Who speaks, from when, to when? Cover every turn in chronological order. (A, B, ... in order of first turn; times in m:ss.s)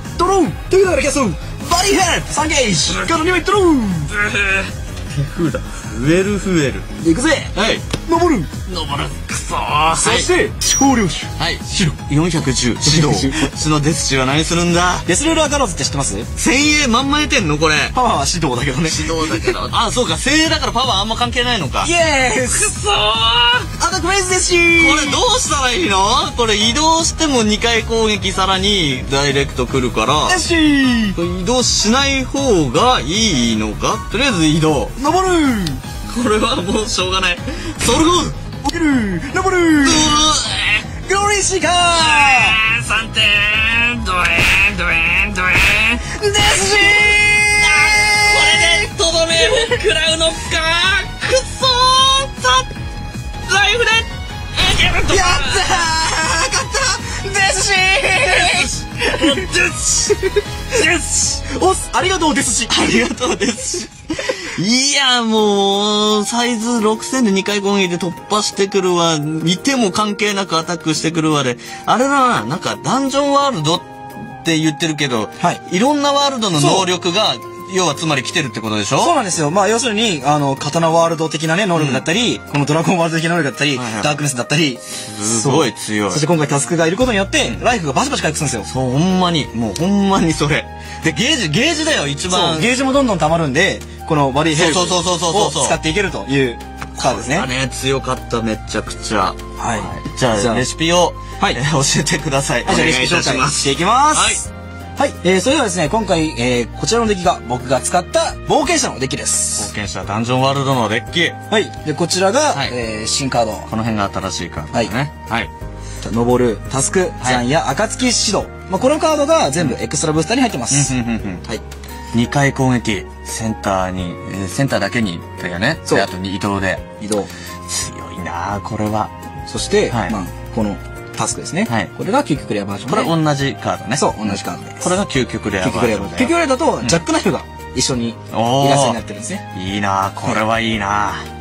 0:00.2-0:04.1 A
0:02.9-0:03.2 B
0:04.1-0:06.9 B
0:07.0-0:08.5 A
0:07.5-0:07.8 B
0:08.7-0:10.3 B
0:10.0-0:11.9 A
0:11.4-0:15.1 B
0:12.8-0:13.5 A
0:15.0-0:16.3 A
0:16.4-0:18.0 B
0:17.9-0:19.6 A
0:18.8-0:21.9 B
0:21.8-0:22.7 A
0:22.5-0:23.7 B
0:23.7-0:25.2 A
0:24.8-0:30.4 B
0:30.3-0:31.2 A
0:31.1-0:34.9 B
0:35.0-0:35.8 A
0:36.1-0:38.4 B
0:38.6-0:40.2 A
0:39.8-0:40.9 B
0:41.0-0:42.6 A
0:41.9-0:52.7 B
0:46.1-0:49.7 A
0:53.4-0:55.8 B
0:55.1-0:59.5 A
0:58.1-1:01.4 B
1:01.4-1:03.0 A
1:02.7-1:19.2 B
1:16.5-1:16.9 A
1:19.0-1:28.7 A
1:21.7-1:22.0 B
1:23.7-1:24.2 B
1:25.1-1:26.2 B
1:28.6-1:32.7 B
1:32.3-1:37.5 A
1:34.5-1:35.8 B
1:37.0-1:44.4 B
1:39.6-1:40.7 A
1:42.6-1:49.7 A
1:49.6-1:51.4 B
1:51.5-1:53.7 A
1:53.7-1:55.5 B
1:56.0-2:00.9 A
2:00.7-2:01.4 B
2:02.1-2:06.8 B
2:07.0-2:07.3 A
2:07.7-2:09.1 B
2:09.5-2:13.1 A
2:09.9-2:10.1 B
2:12.9-2:17.0 B
2:13.9-2:14.9 A
2:15.6-2:19.4 A
2:18.3-2:19.0 B
2:19.5-2:21.2 B